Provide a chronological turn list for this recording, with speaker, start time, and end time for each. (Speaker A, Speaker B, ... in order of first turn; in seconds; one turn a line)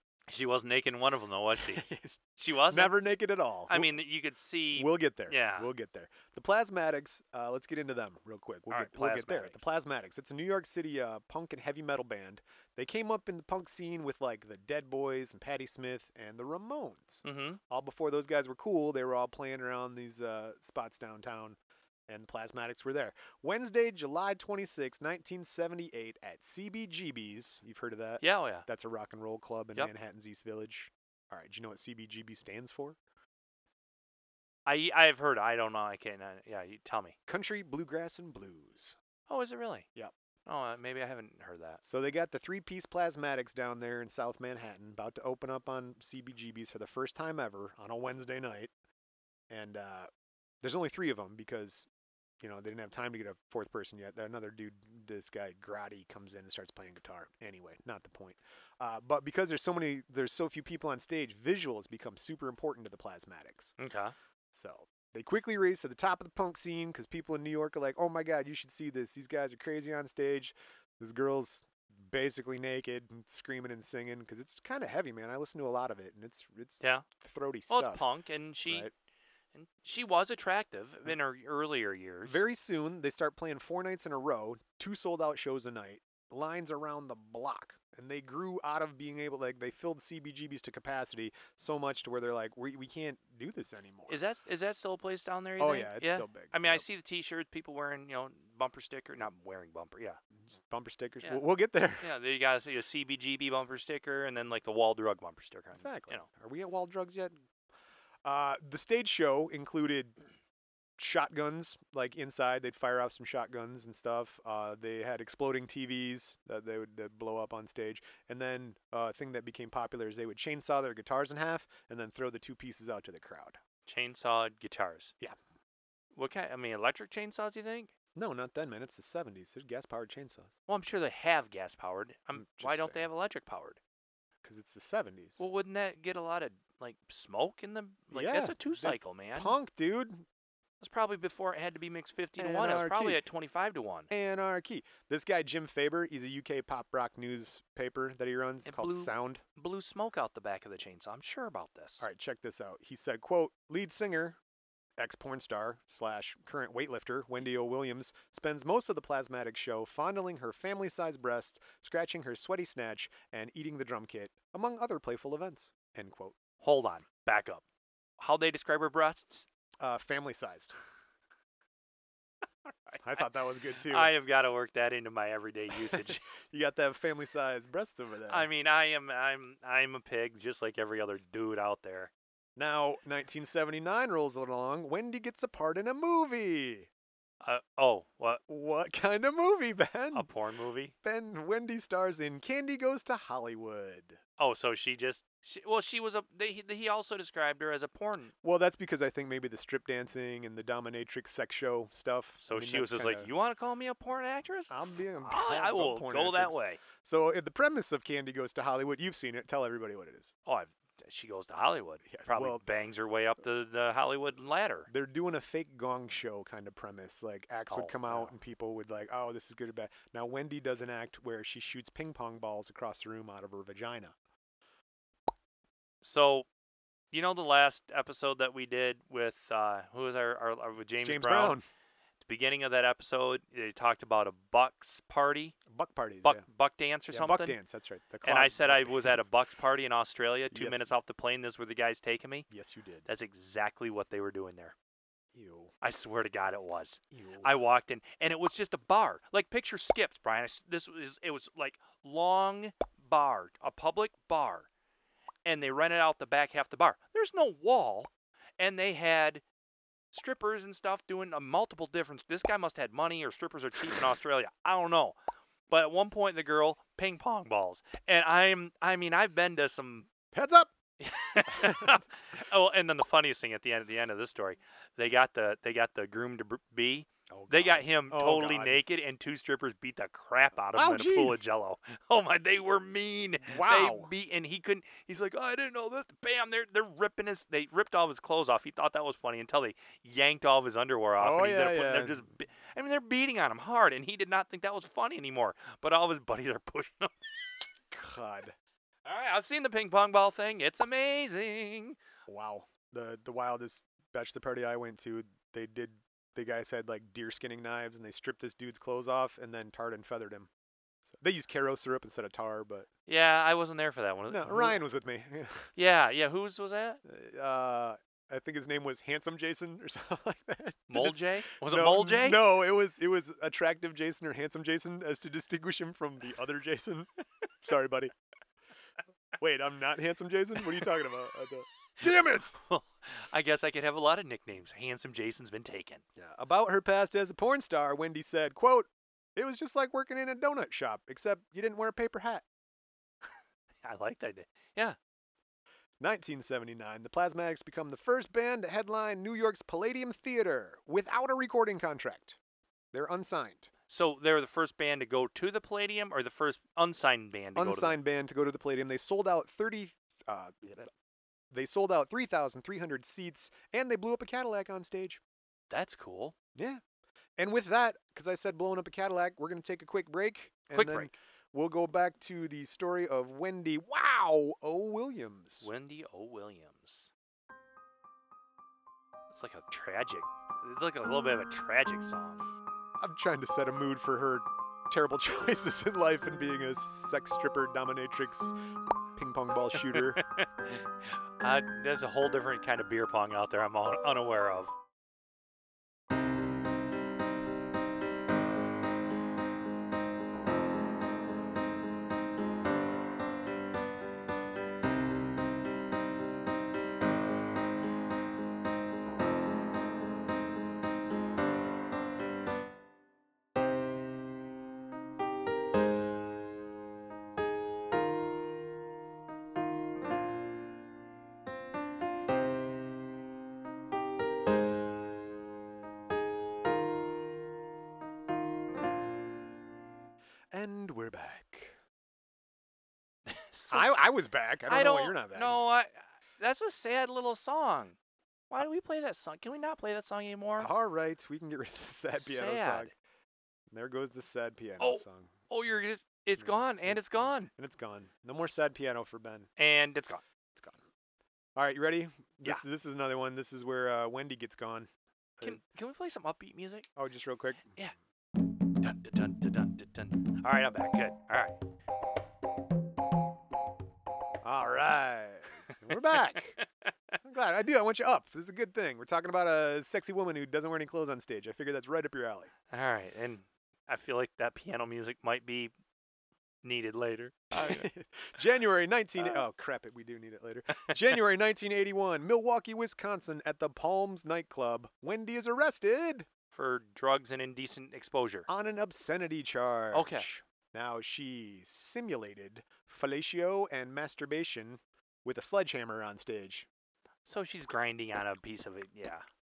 Speaker A: 0.3-1.8
Speaker B: 1.6-4.0
Speaker A: 2.4-2.9
Speaker A: 3.7-5.7
Speaker B: 4.7-33.0
Speaker A: 8.7-9.7
Speaker A: 17.2-17.6
Speaker A: 28.2-28.6
Speaker A: 34.6-37.1
Speaker B: 37.3-39.0
Speaker A: 39.3-39.9
Speaker A: 40.5-41.8
Speaker B: 41.8-48.7
Speaker B: 49.5-50.1
Speaker B: 50.6-51.9
Speaker B: 52.4-63.7
Speaker A: 63.8-64.1
Speaker B: 64.5-78.0
Speaker A: 76.8-77.0
Speaker A: 77.7-78.9
Speaker B: 78.7-78.9
Speaker A: 79.5-82.4
Speaker B: 82.2-94.2
Speaker A: 94.1-100.2
Speaker B: 95.6-96.8
Speaker B: 100.4-102.1
Speaker A: 102.0-106.3
Speaker B: 105.7-107.3
Speaker B: 108.2-110.2
Speaker B: 111.0-123.6
Speaker A: 123.8-125.1
Speaker A: 126.1-127.9
Speaker B: 128.1-130.5
Speaker A: 130.7-133.8
Speaker B: 132.3-133.1
Speaker B: 134.4-135.4
Speaker A: 135.4-139.6
Speaker B: 138.1-140.2
Speaker A: 140.8-144.1
Speaker B: 142.4-143.2
Speaker B: 144.1-149.4
Speaker A: 148.6-152.1
Speaker B: 152.0-154.4
Speaker B: 155.0-166.4
Speaker A: 166.6-167.6
Speaker A: 168.2-169.5
Speaker B: 169.8-170.7
Speaker B: 173.0-174.1
Speaker A: 173.9-176.2
Speaker B: 175.9-178.5
Speaker A: 178.3-182.1
Speaker B: 182.6-186.9
Speaker A: 187.4-188.4
Speaker B: 188.5-190.3
Speaker A: 190.1-190.9
Speaker B: 191.0-194.2
Speaker A: 194.4-198.3
Speaker B: 198.4-203.3
Speaker A: 202.4-206.8
Speaker B: 204.7-210.3
Speaker A: 210.4-214.9
Speaker B: 212.1-212.6
Speaker B: 214.9-224.1
Speaker A: 217.7-218.3
Speaker A: 226.0-226.4
Speaker A: 227.1-231.6
Speaker B: 231.0-231.6
Speaker A: 232.2-235.6
Speaker B: 235.7-236.4
Speaker A: 236.2-237.6
Speaker B: 237.1-239.3
Speaker A: 238.2-242.4
Speaker B: 240.5-240.9
Speaker B: 242.5-243.1
Speaker A: 243.1-244.7
Speaker B: 245.3-245.7
Speaker A: 245.8-254.7
Speaker B: 247.1-247.5
Speaker A: 255.4-259.4
Speaker A: 260.1-265.2
Speaker A: 265.7-270.1
Speaker B: 270.3-270.7
Speaker A: 271.0-297.1
Speaker B: 271.4-272.0
Speaker B: 277.3-278.8
Speaker B: 280.7-281.4
Speaker B: 283.5-284.1
Speaker B: 291.2-292.3
Speaker B: 297.9-298.5
Speaker A: 299.0-301.9
Speaker B: 302.3-310.5
Speaker B: 311.1-312.9
Speaker A: 313.1-314.8
Speaker B: 314.3-315.7
Speaker A: 315.8-317.0
Speaker B: 317.0-327.1
Speaker A: 320.9-322.4
Speaker B: 327.6-328.1
Speaker B: 329.4-332.6
Speaker A: 332.5-336.0
Speaker B: 336.2-342.4
Speaker A: 343.8-344.9
Speaker B: 346.0-352.4
Speaker B: 352.9-353.7
Speaker A: 353.9-358.0
Speaker B: 357.6-360.9
Speaker B: 361.5-365.2
Speaker A: 365.7-366.3
Speaker B: 366.5-366.8
Speaker B: 367.4-375.7
Speaker A: 370.7-371.1
Speaker A: 375.6-377.1
Speaker A: 379.3-382.5
Speaker B: 383.0-388.6
Speaker B: 389.1-390.2
Speaker A: 389.9-390.9
Speaker A: 391.4-394.7
Speaker B: 430.5-431.8
Speaker A: 433.3-434.0
Speaker B: 433.7-435.6
Speaker A: 434.7-437.9
Speaker A: 438.5-440.7
Speaker B: 440.6-442.9
Speaker A: 442.1-442.9
Speaker B: 443.7-445.3
Speaker A: 444.8-447.5
Speaker B: 446.4-449.5
Speaker A: 449.6-450.2
Speaker B: 451.6-455.6
Speaker A: 455.4-456.9
Speaker B: 456.9-457.8
Speaker A: 458.8-461.6
Speaker B: 464.4-466.6
Speaker A: 466.1-466.6
Speaker B: 467.2-472.5
Speaker A: 472.7-475.7
Speaker A: 476.6-477.9
Speaker B: 477.5-486.3
Speaker A: 486.5-488.5
Speaker B: 488.5-496.7
Speaker A: 489.9-490.3
Speaker A: 497.2-499.3